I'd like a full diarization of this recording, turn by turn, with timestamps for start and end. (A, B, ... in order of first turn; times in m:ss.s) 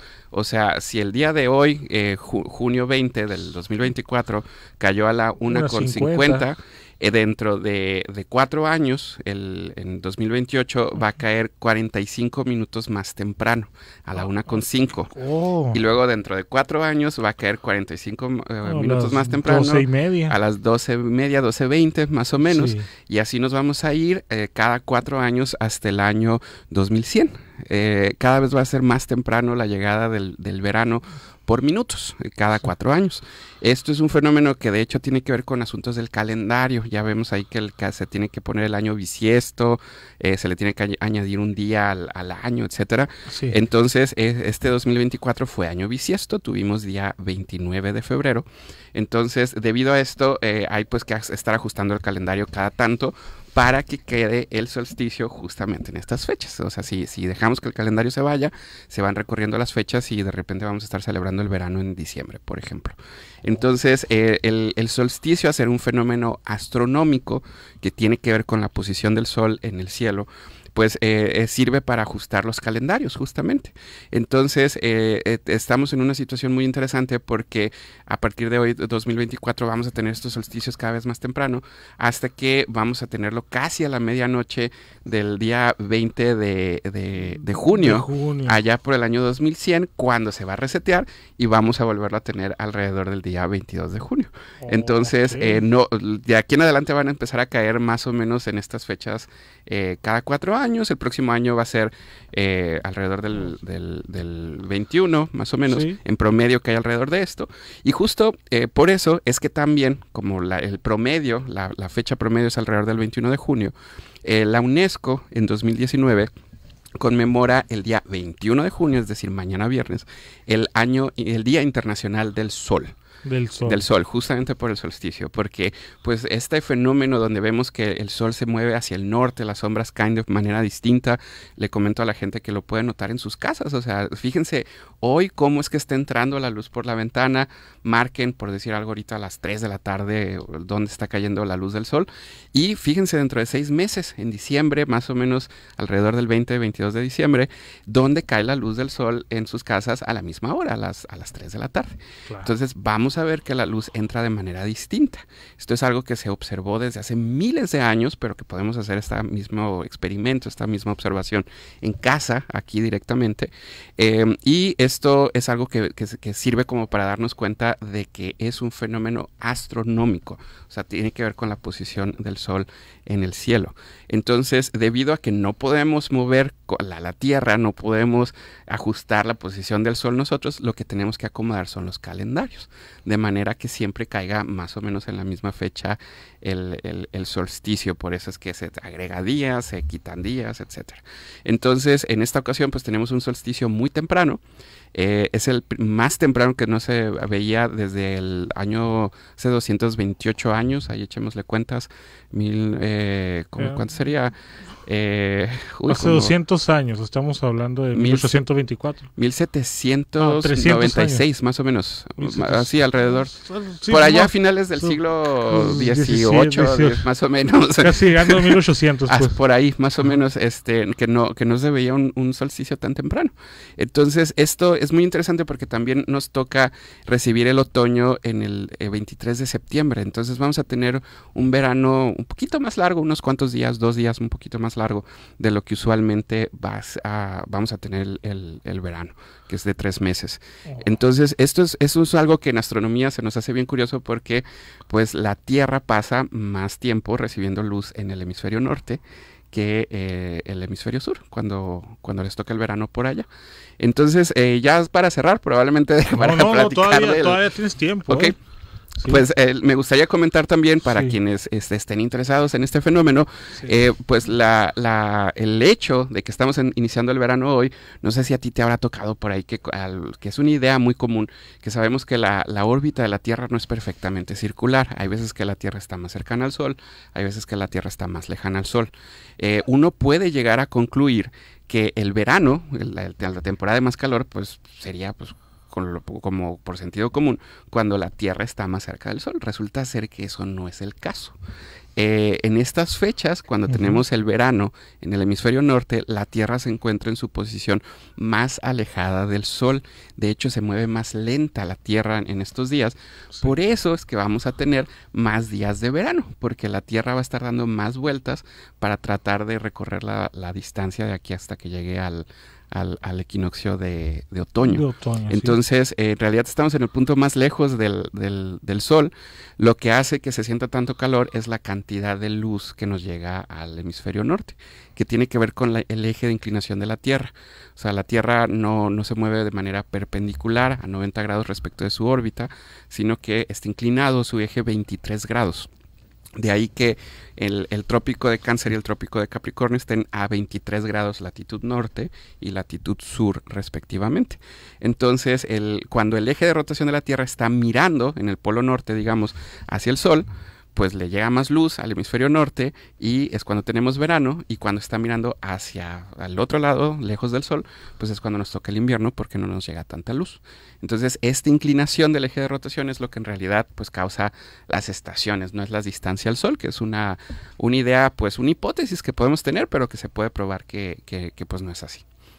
0:00.3-0:15.1 A
0:05.4-0:06.5 B
0:15.1-0:15.8 B
0:15.7-1:56.3 A
0:18.6-0:20.4 B
0:22.4-0:22.9 B
0:43.3-0:43.6 B
1:27.4-1:28.6 B
1:34.6-1:35.7 B
1:45.7-1:46.0 B
1:57.0-2:02.9 A
2:03.2-2:03.8 B
2:03.6-3:14.4 A
3:15.0-3:26.4 A
3:23.6-3:23.8 B
3:25.9-3:29.1 B
3:27.9-3:28.4 A
3:29.2-3:33.3 A
3:30.2-3:31.2 B
3:32.2-3:37.1 B
3:33.9-4:09.0 A
3:37.8-3:39.4 B
4:00.7-4:00.9 B
4:09.5-4:13.3 A
4:13.8-4:17.4 A
4:16.1-4:18.4 B
4:18.1-4:18.4 A
4:19.1-4:51.4 A
4:20.9-4:21.2 B
4:52.0-5:35.7 A
4:53.7-4:54.0 B
5:14.6-5:15.6 B
5:36.4-6:12.0 A